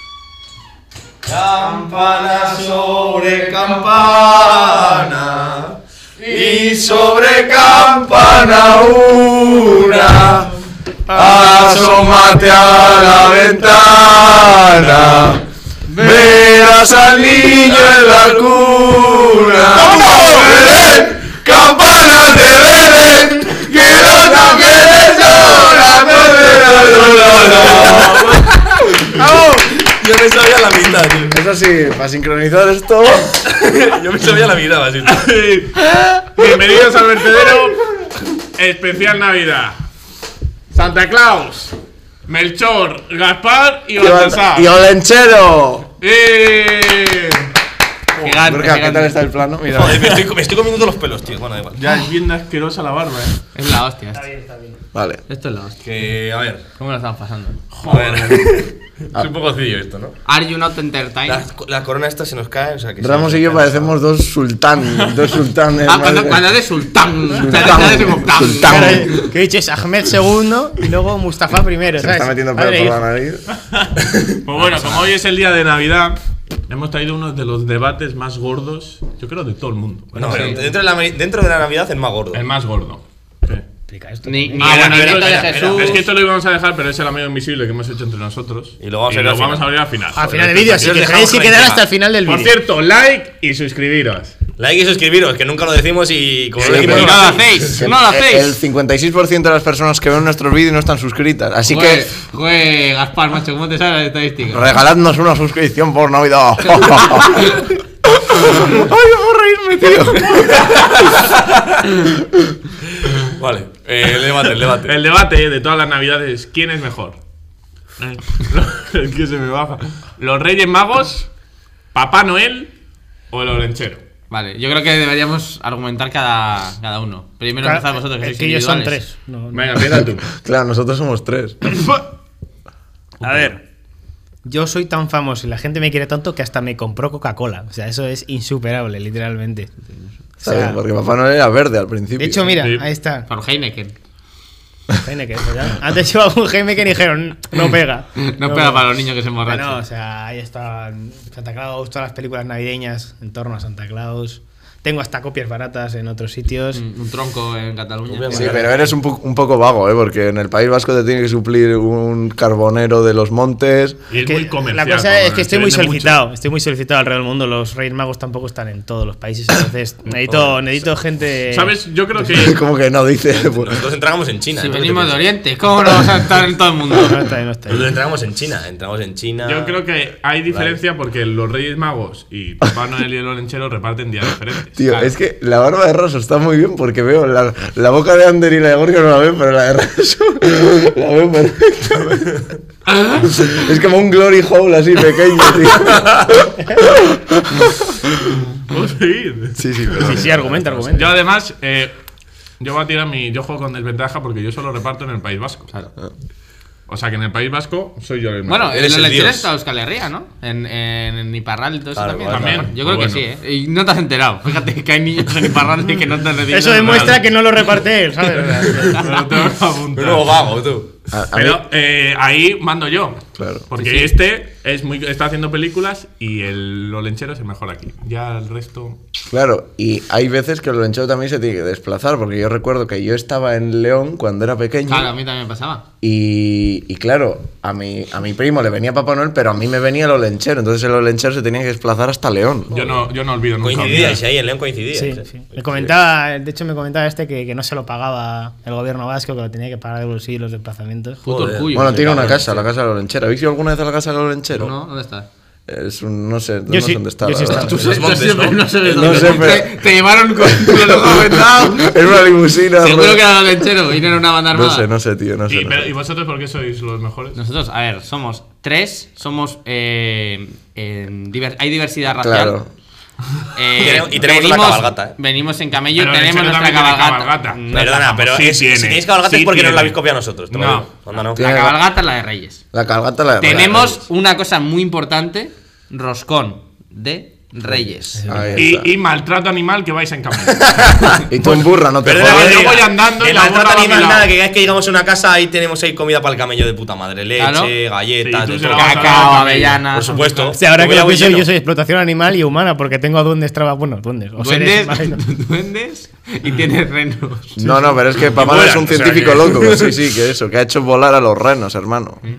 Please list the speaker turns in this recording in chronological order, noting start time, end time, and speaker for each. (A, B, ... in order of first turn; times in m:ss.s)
0:01.3-0:01.9 A
0:01.4-0:10.5 B
0:03.0-0:03.7 A
0:11.1-0:28.4 B
0:15.9-0:16.4 C
0:19.9-0:20.7 D
0:24.2-0:28.5 A
0:29.0-0:31.3 A
0:31.3-0:33.4 B
0:33.5-0:35.3 A
0:35.0-0:37.9 D
0:38.6-0:39.8 D
0:40.7-0:41.7 D
0:42.3-0:44.7 D
0:44.0-0:45.9 B
0:46.0-0:47.5 D
0:48.2-0:49.2 C
0:48.4-0:50.1 B
0:49.7-0:51.8 A
0:51.8-0:53.4 D
0:53.5-0:54.3 C
0:54.1-0:54.8 E
0:54.9-0:55.2 B
0:55.3-0:55.8 C
0:55.8-0:56.6 A
0:56.8-0:57.6 C
0:57.7-0:58.6 D
0:57.8-1:00.2 A
1:00.2-1:01.4 C
1:01.3-1:03.9 A
1:03.0-1:06.5 B
1:05.8-1:09.0 C
1:07.3-1:09.3 B
1:08.6-1:13.0 E
1:12.0-1:13.4 B
1:14.4-1:20.6 D
1:20.1-1:22.4 A
1:20.3-1:20.6 C
1:22.3-1:23.6 D
1:23.9-1:24.8 E
1:24.2-1:26.0 C
1:24.6-1:26.0 A
1:24.6-1:31.0 D
1:28.8-1:29.7 A
1:30.1-1:32.6 E
1:30.6-1:31.8 A
1:32.2-1:34.3 D
1:34.6-1:37.7 A
1:36.6-1:37.3 D
1:36.6-1:38.6 C
1:36.6-1:37.2 B
1:37.7-1:42.1 B
1:41.6-1:44.7 C
1:44.5-1:51.0 B
1:53.4-1:54.9 A
1:54.8-1:57.2 D
1:58.0-2:01.3 D
2:01.9-2:02.7 D
2:03.3-2:04.0 D
2:04.3-2:09.0 C
2:07.6-2:09.8 E
2:09.5-2:10.2 D
2:10.2-2:11.8 B
2:13.2-2:13.5 D
2:13.2-2:13.6 E
2:14.4-2:19.7 E
2:20.4-2:20.8 E
2:20.4-2:22.6 B
2:22.2-2:23.3 E
2:22.6-2:22.8 D
2:23.3-2:23.9 C
2:25.0-2:28.9 E
2:28.2-2:29.8 C
2:29.5-2:36.8 E
2:36.7-2:38.9 C
2:38.1-2:38.7 A
2:38.3-2:44.0 B
2:44.1-2:46.2 D
2:44.2-2:51.8 E
2:50.2-2:50.7 A
2:51.5-2:52.6 D
2:52.3-2:53.8 B
2:53.3-2:55.2 A
2:54.6-2:57.2 C
2:57.0-2:57.9 E
2:57.7-2:59.8 A
2:59.4-3:05.1 D
3:00.5-3:00.8 A
3:04.8-3:12.5 B
3:13.0-3:13.4 D
3:13.1-3:18.1 B
3:18.6-3:20.1 D
3:19.6-3:20.7 B
3:20.0-3:21.1 E
3:20.8-3:21.9 D
3:22.6-3:25.7 D
3:26.9-3:28.7 D
3:28.4-3:37.2 C
3:28.7-3:29.5 A
3:31.9-3:32.7 A
3:32.3-3:33.2 D
3:36.5-3:39.1 E
3:36.8-3:37.2 D
3:38.8-3:40.4 D
3:39.9-3:40.9 A
3:41.1-3:41.6 B
3:41.3-3:49.0 D
3:43.4-3:43.6 B
3:43.8-3:44.1 C
3:49.3-3:55.1 B
3:54.9-3:55.8 C
3:56.0-4:02.9 B
4:02.7-4:04.2 D
4:03.6-4:05.9 A
4:04.9-4:11.2 E
4:11.2-4:12.4 C
4:11.3-4:12.6 A
4:11.7-4:14.7 B
4:14.6-4:15.3 C
4:15.7-4:17.8 B
4:16.7-4:18.0 E
4:17.5-4:19.5 A
4:17.8-4:21.9 C
4:18.8-4:19.8 B
4:20.4-4:23.5 B
4:22.8-4:24.9 C
4:24.5-4:25.9 B
4:25.5-4:27.4 D
4:27.3-4:32.6 C
4:32.1-4:32.7 B
4:33.5-4:38.2 C
4:33.8-4:35.2 A
4:35.9-4:40.0 D
4:37.7-4:41.4 A
4:40.5-4:40.9 D
4:41.3-4:41.8 B
4:41.4-4:42.6 C
4:42.7-4:44.0 B
4:43.4-4:48.2 C
4:48.2-4:48.6 E
4:48.3-4:48.9 B
4:48.6-4:54.3 D
4:50.6-4:51.2 A
4:51.3-4:52.8 B
4:52.0-4:59.1 A
4:57.4-4:57.7 C
4:58.2-5:00.5 D
4:58.7-5:00.6 C
4:59.9-5:01.5 A
5:00.5-5:05.2 E
5:04.4-5:07.7 C
5:07.6-5:12.2 B
5:08.3-5:10.0 A
5:08.4-5:09.6 D